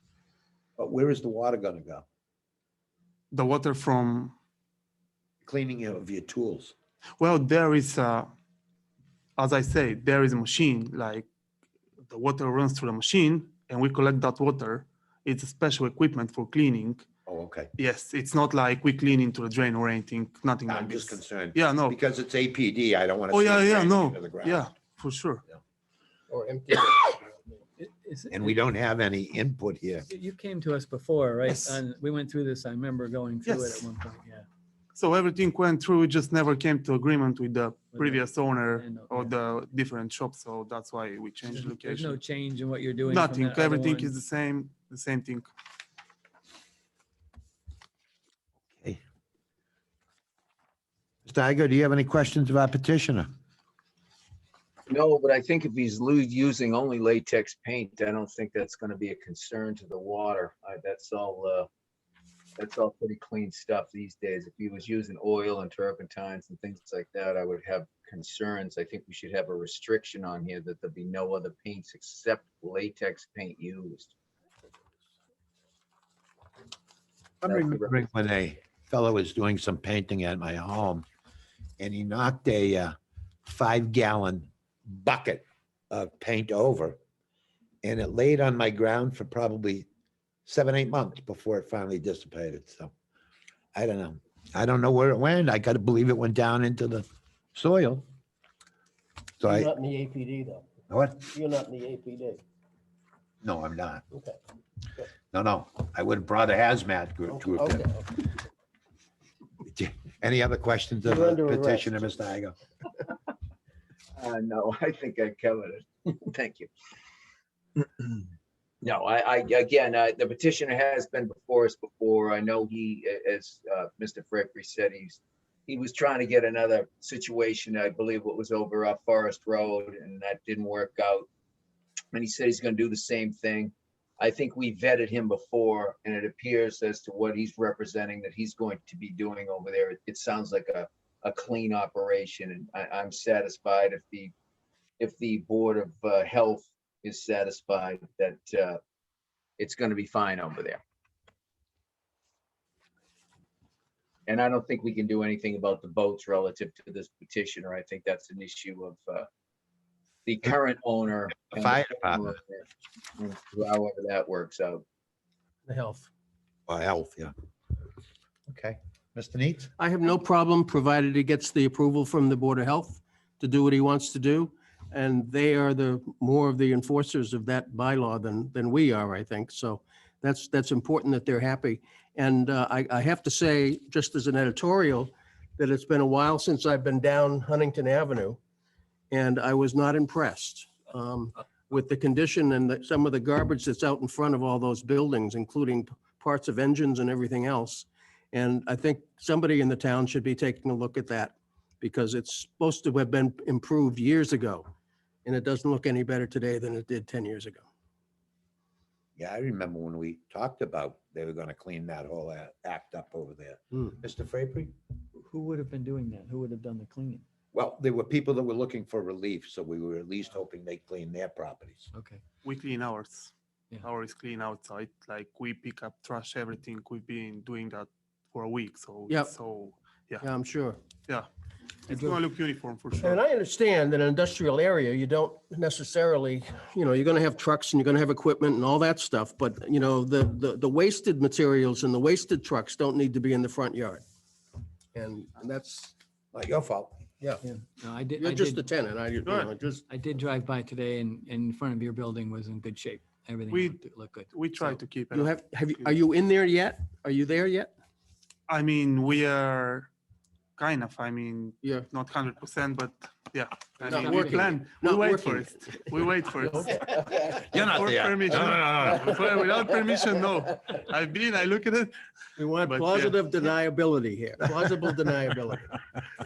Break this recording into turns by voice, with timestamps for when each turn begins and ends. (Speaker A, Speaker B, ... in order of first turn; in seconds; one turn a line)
Speaker A: 0.8-2.0
Speaker B: 3.3-4.3
Speaker A: 5.4-6.7
Speaker B: 7.2-8.3
Speaker B: 9.4-11.3
Speaker B: 12.1-17.1
Speaker A: 17.3-17.7
Speaker B: 17.8-22.0
Speaker A: 20.7-24.7
Speaker B: 23.3-25.4
Speaker C: 26.3-27.6
Speaker D: 27.8-28.6
Speaker A: 28.3-30.1
Speaker D: 30.1-34.5
Speaker B: 31.5-31.8
Speaker B: 33.5-33.9
Speaker B: 35.0-42.2
Speaker D: 38.0-39.3
Speaker D: 41.5-44.1
Speaker B: 43.1-45.5
Speaker A: 51.2-53.3
Speaker E: 54.9-61.7
Speaker E: 62.6-74.1
Speaker A: 77.4-81.0
Speaker E: 77.5-78.0
Speaker A: 81.8-87.0
Speaker A: 87.8-89.9
Speaker A: 90.5-92.9
Speaker A: 93.7-98.1
Speaker A: 99.4-99.7
Speaker C: 99.5-100.7
Speaker A: 100.9-101.3
Speaker C: 101.3-102.4
Speaker A: 103.4-104.0
Speaker C: 104.1-104.4
Speaker A: 105.3-107.9
Speaker C: 107.3-108.3
Speaker A: 109.7-112.5
Speaker C: 111.0-112.1
Speaker E: 114.2-116.7
Speaker E: 117.8-118.3
Speaker E: 118.8-131.3
Speaker E: 132.1-144.3
Speaker E: 145.0-148.8
Speaker E: 149.6-150.8
Speaker E: 154.3-159.3
Speaker E: 160.3-162.7
Speaker A: 161.5-162.3
Speaker E: 163.2-164.8
Speaker C: 165.7-166.1
Speaker A: 166.7-167.3
Speaker A: 168.5-169.7
Speaker C: 169.8-188.4
Speaker C: 189.1-204.7
Speaker C: 205.2-207.6
Speaker A: 209.2-214.7
Speaker D: 215.2-217.2
Speaker A: 217.5-221.9
Speaker D: 221.9-222.2
Speaker B: 222.4-230.3
Speaker C: 229.1-229.3
Speaker C: 230.2-230.8
Speaker B: 231.9-233.2
Speaker D: 231.9-232.2
Speaker C: 233.0-244.0
Speaker C: 244.9-245.9
Speaker A: 246.3-247.0
Speaker D: 247.4-248.7
Speaker C: 248.1-249.9
Speaker B: 249.2-249.5
Speaker D: 249.9-254.4
Speaker B: 253.5-256.0
Speaker C: 254.6-257.7
Speaker B: 258.5-259.9
Speaker B: 260.6-266.9
Speaker C: 263.8-267.4
Speaker D: 263.8-264.4
Speaker A: 267.5-269.1
Speaker B: 267.5-271.9
Speaker C: 272.4-275.8
Speaker B: 272.6-273.2